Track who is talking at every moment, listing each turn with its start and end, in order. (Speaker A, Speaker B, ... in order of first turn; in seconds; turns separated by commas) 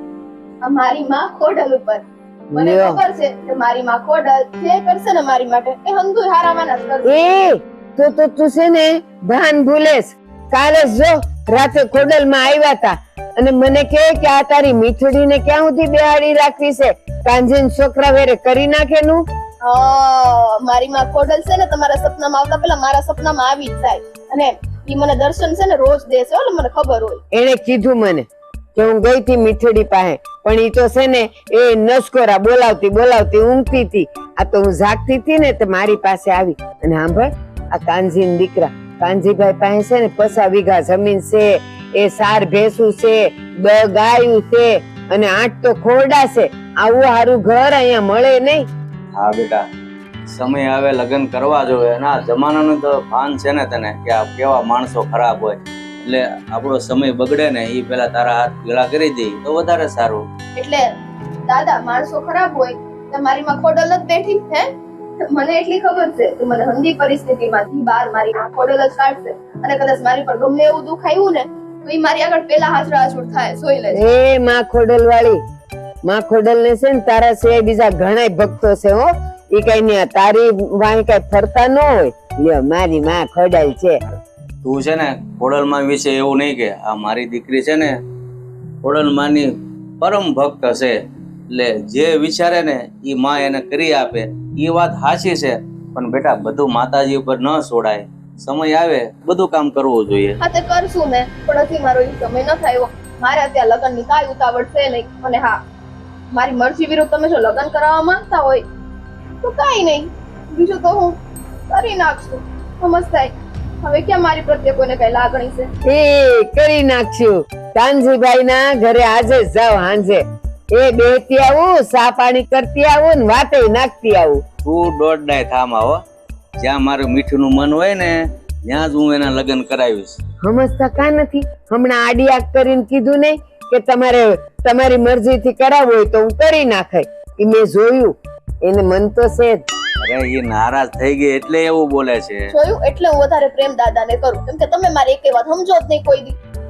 Speaker A: 0.6-7.1, Speaker B: 2.5-3.0, Speaker B: 7.1-19.2, Speaker A: 19.6-27.2, Speaker B: 27.3-48.6, Speaker C: 49.1-49.6, Speaker C: 50.3-60.2, Speaker A: 60.5-60.9, Speaker A: 61.5-64.7, Speaker A: 65.2-74.0, Speaker B: 73.9-75.4, Speaker B: 76.0-84.0, Speaker C: 84.6-87.9, Speaker C: 88.8-89.5, Speaker C: 90.0-90.9, Speaker C: 91.5-100.4, Speaker A: 100.4-105.6, Speaker A: 106.3-108.7, Speaker A: 109.4-111.2, Speaker A: 111.7-115.7, Speaker B: 115.9-120.2, Speaker B: 120.7-124.4, Speaker C: 124.6-126.0, Speaker C: 126.6-130.2, Speaker B: 130.4-139.6, Speaker C: 140.0-142.5, Speaker A: 142.5-146.3